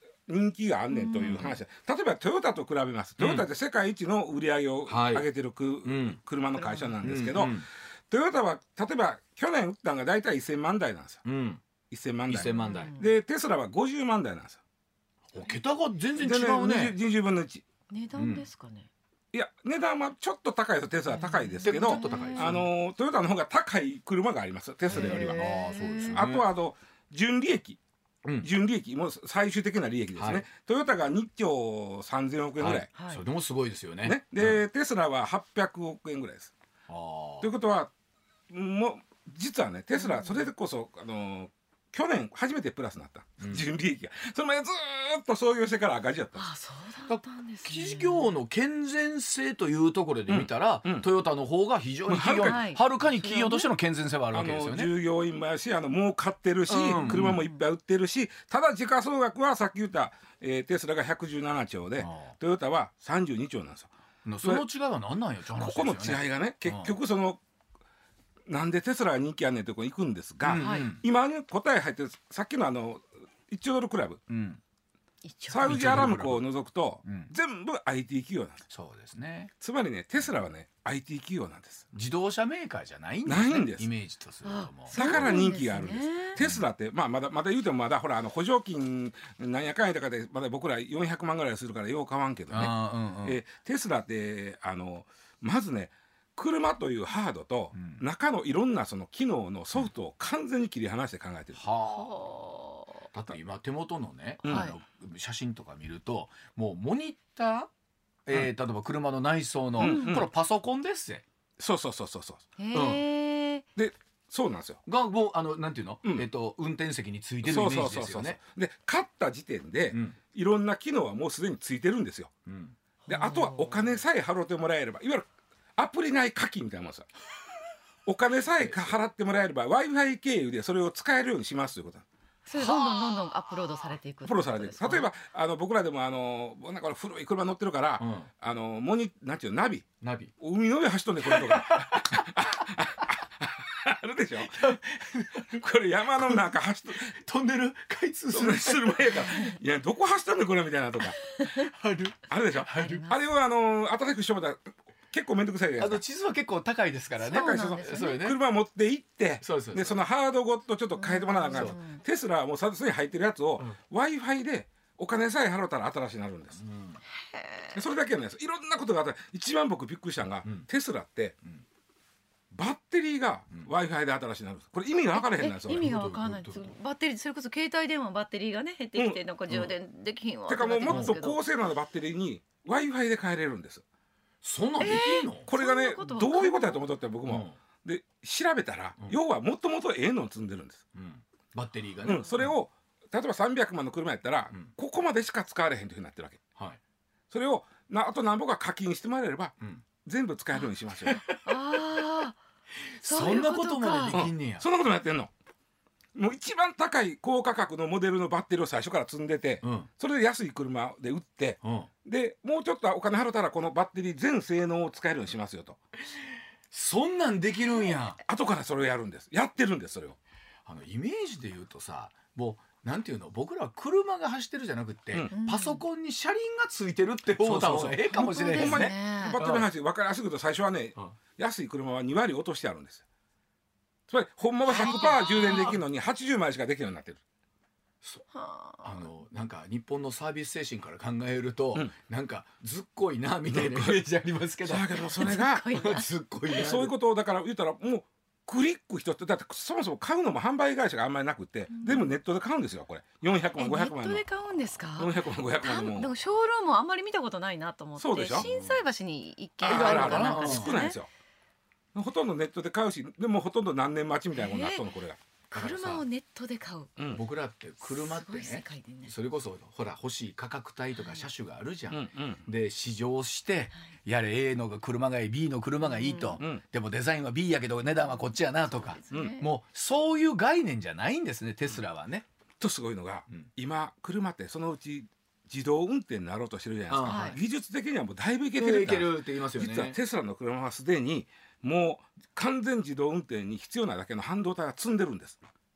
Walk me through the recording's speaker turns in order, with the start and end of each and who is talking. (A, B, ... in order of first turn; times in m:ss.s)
0:00.3-0:11.2 A
0:00.9-0:01.5 B
0:03.2-0:03.5 C
0:04.9-0:05.3 C
0:05.8-0:06.2 C
0:06.6-0:07.0 B
0:07.0-0:07.7 C
0:11.2-0:11.6 C
0:11.9-0:14.6 A
0:12.3-0:12.9 C
0:12.5-0:13.1 B
0:15.3-0:17.0 C
0:16.2-0:17.6 A
0:17.9-0:18.9 B
0:18.2-0:18.5 C
0:19.3-0:25.5 A
0:21.1-0:22.5 B
0:21.6-0:22.7 C
0:24.9-0:26.4 C
0:24.9-0:26.2 B
0:26.1-0:27.8 A
0:28.2-0:28.5 C
0:28.4-0:32.9 A
0:30.2-0:30.4 C
0:32.6-0:34.6 C
0:33.0-0:33.2 B
0:34.0-0:36.5 A
0:36.9-0:37.5 C
0:37.4-0:37.9 A
0:38.5-0:46.5 A
0:40.0-0:40.5 B
0:43.4-0:43.7 C
0:46.4-0:48.3 B
0:47.1-0:54.9 C
0:50.3-0:51.1 A
0:52.1-0:52.6 A
0:52.4-0:53.7 B
0:54.3-1:03.9 A
0:56.7-0:57.4 C
0:57.1-0:57.6 B
1:02.0-1:02.4 C
1:04.2-1:07.0 C
1:05.6-1:07.4 A
1:08.5-1:14.2 A
1:10.4-1:11.0 C
1:10.6-1:10.9 B
1:14.3-1:14.6 C
1:15.2-1:16.1 B
1:15.5-1:18.6 A
1:15.6-1:16.4 C
1:17.0-1:17.3 C
1:18.7-1:19.5 C
1:19.6-1:21.8 A
1:21.9-1:25.3 C
1:23.2-1:23.9 A
1:24.4-1:26.4 B
1:24.9-1:32.7 A
1:32.5-1:33.4 C
1:33.2-1:41.6 A
1:37.7-1:38.0 C
1:41.6-1:42.3 C
1:41.9-1:43.1 B
1:43.1-1:47.7 C
1:44.4-1:44.7 A
1:44.5-1:44.8 B
1:48.3-1:51.2 C
1:49.8-1:50.3 A
1:49.8-1:50.2 B
1:51.6-1:52.4 A
1:52.6-1:53.6 B
1:52.7-1:53.0 C
1:53.8-1:54.8 A
1:54.9-1:58.4 C
1:57.4-2:02.3 A
1:59.9-2:00.2 C
2:02.5-2:02.8 C
2:03.1-2:04.0 B
2:03.1-2:07.1 A
2:08.1-2:12.0 A
2:08.5-2:09.0 C
2:12.5-2:15.1 B
2:12.6-2:13.0 C
2:14.2-2:19.9 A
2:18.0-2:18.3 C
2:20.0-2:20.3 C
2:20.4-2:24.8 A
2:21.2-2:22.7 C
2:24.4-2:25.6 C
2:25.4-2:27.2 A
2:26.2-2:29.5 C
2:28.3-2:31.2 A
2:31.4-2:31.7 B
2:31.4-2:33.1 C
2:32.3-2:36.0 A
2:32.7-2:33.2 B
2:35.8-2:38.4 C
2:37.2-2:38.3 B
2:37.2-2:46.6 A
2:39.4-2:40.0 C
2:41.0-2:42.0 B
2:41.5-2:41.8 C
2:46.6-2:47.0 C
2:47.3-2:47.7 B
2:47.7-2:51.4 A
2:52.5-2:55.9 A
2:55.1-3:01.4 B
2:55.7-2:56.7 C
2:59.0-2:59.2 A
3:00.5-3:03.8 A
3:00.9-3:01.2 C
3:04.4-3:05.5 C
3:04.8-3:06.9 B
3:04.9-3:10.8 A
3:07.3-3:07.6 C
3:10.9-3:12.5 C
3:12.0-3:16.4 A
3:17.3-3:21.2 A
3:21.1-3:21.8 C
3:21.3-3:22.4 B
3:22.8-3:24.6 C
3:23.0-3:24.2 B
3:24.1-3:25.3 A
3:26.2-3:35.8 A
3:29.6-3:29.9 C
3:31.6-3:31.9 C
3:36.1-3:38.2 C
3:38.3-3:40.2 A
3:40.7-3:49.7 C
3:45.3-3:45.8 B
3:47.4-3:53.0 A
3:48.0-3:49.4 B
3:54.1-3:57.2 A
3:54.7-3:55.8 B
3:54.8-3:55.1 C
3:58.3-3:59.0 B
3:58.8-4:06.9 C
4:03.5-4:04.0 A
4:04.6-4:05.7 A
4:05.0-4:06.6 B
4:06.6-4:14.2 A
4:11.7-4:12.1 B
4:13.6-4:21.0 B
4:15.0-4:16.1 A
4:18.0-4:18.8 A
4:19.6-4:21.1 A
4:19.7-4:20.8 C
4:22.0-4:25.2 A
4:24.4-4:24.8 B
4:25.5-4:26.0 C
4:25.5-4:27.0 B
4:27.1-4:42.3 C
4:27.8-4:29.1 B
4:31.0-4:31.3 B
4:31.9-4:32.4 A
4:35.8-4:36.4 B
4:37.9-4:39.5 B
4:39.1-4:39.4 A
4:42.6-4:55.5 A
4:46.9-4:47.4 C
4:47.0-4:47.4 B
4:48.6-4:50.0 C